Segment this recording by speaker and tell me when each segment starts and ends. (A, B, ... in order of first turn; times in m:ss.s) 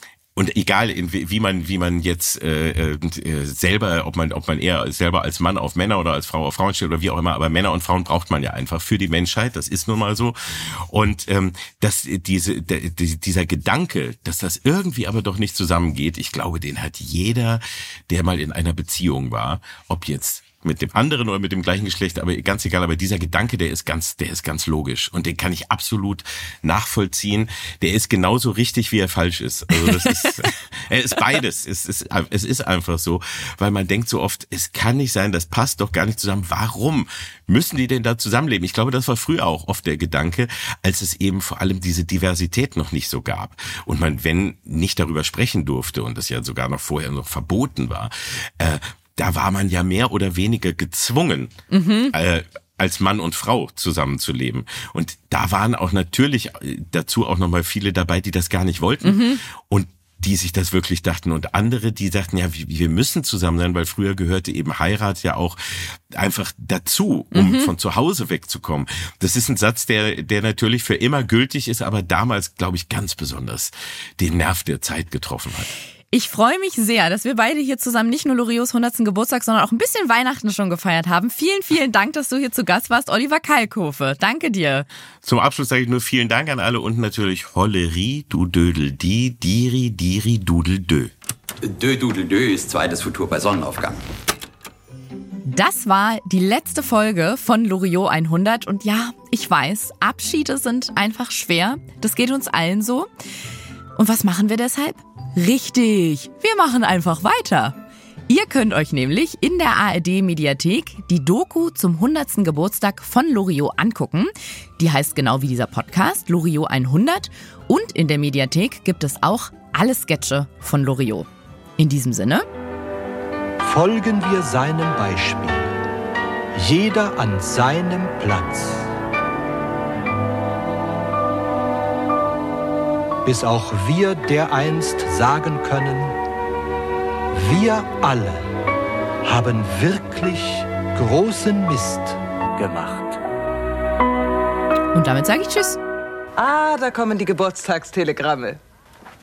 0:00.4-0:51.5 A
0:29.8-0:30.3 B
0:51.7-0:52.2 B
0:52.1-1:15.7 A
0:59.0-0:59.4 B
1:07.3-1:07.7 B
1:16.1-1:24.9 B
1:25.2-1:31.1 A
1:31.6-1:34.0 C
1:35.5-1:43.1 B
1:44.0-1:47.8 B
1:48.3-2:02.4 B
2:03.6-2:05.7 D
2:06.6-2:08.9 D
2:13.2-2:16.2 D
2:17.3-2:18.4 D
2:19.2-2:22.2 D
2:22.6-2:23.1 C
2:24.9-2:25.8 B
2:26.4-2:28.6 E